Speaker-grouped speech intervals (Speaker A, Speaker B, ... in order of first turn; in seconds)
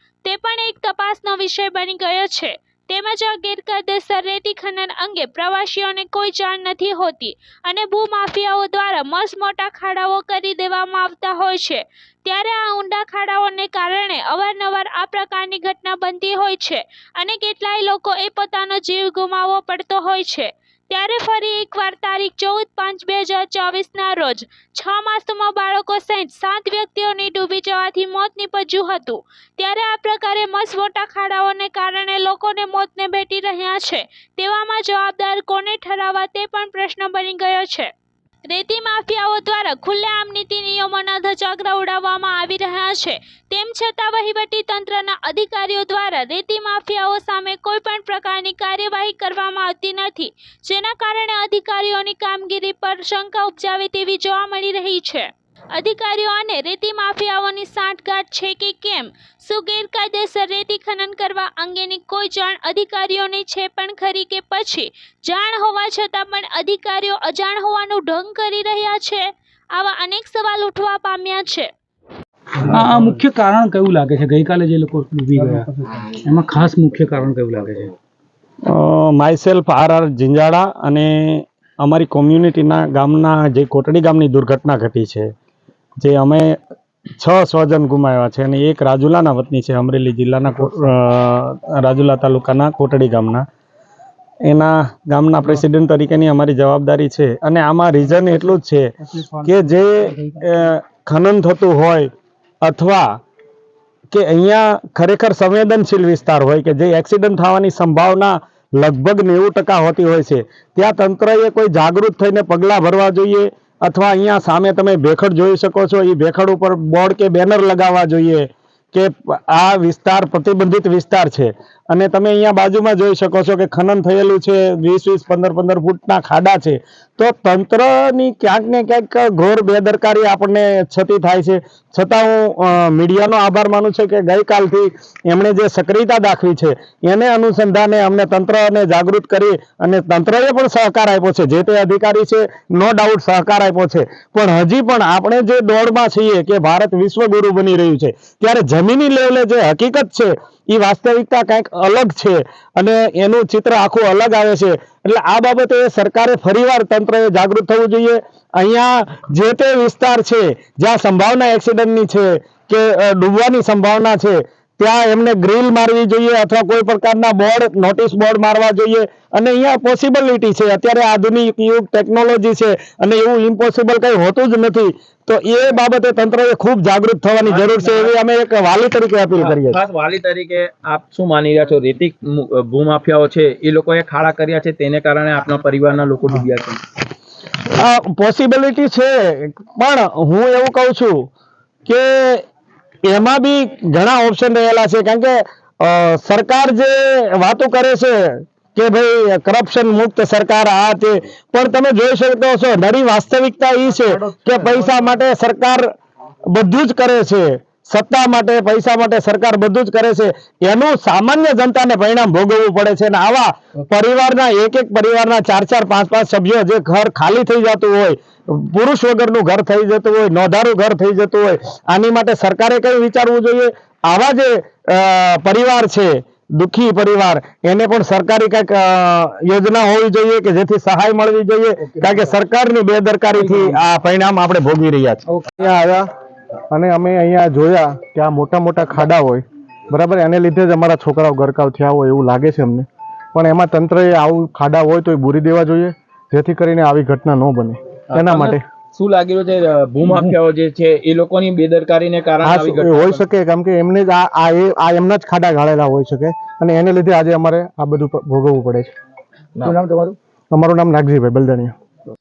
Speaker A: 0.2-37.9, 38.5-71.7
Speaker B: 72.6-77.9, 99.2-99.5
Speaker C: 78.7-85.3, 86.0-86.6, 87.2-93.5, 94.4-98.9, 99.4-102.1, 102.6-103.1, 104.1-179.8, 187.7-191.3, 191.9-192.4, 193.1-205.9, 206.5-235.2
Speaker D: 177.5-178.2, 179.4-186.9, 233.4-233.8, 248.1-253.2
Speaker E: 235.6-236.1, 236.7-248.6, 252.4-258.9, 260.5-261.7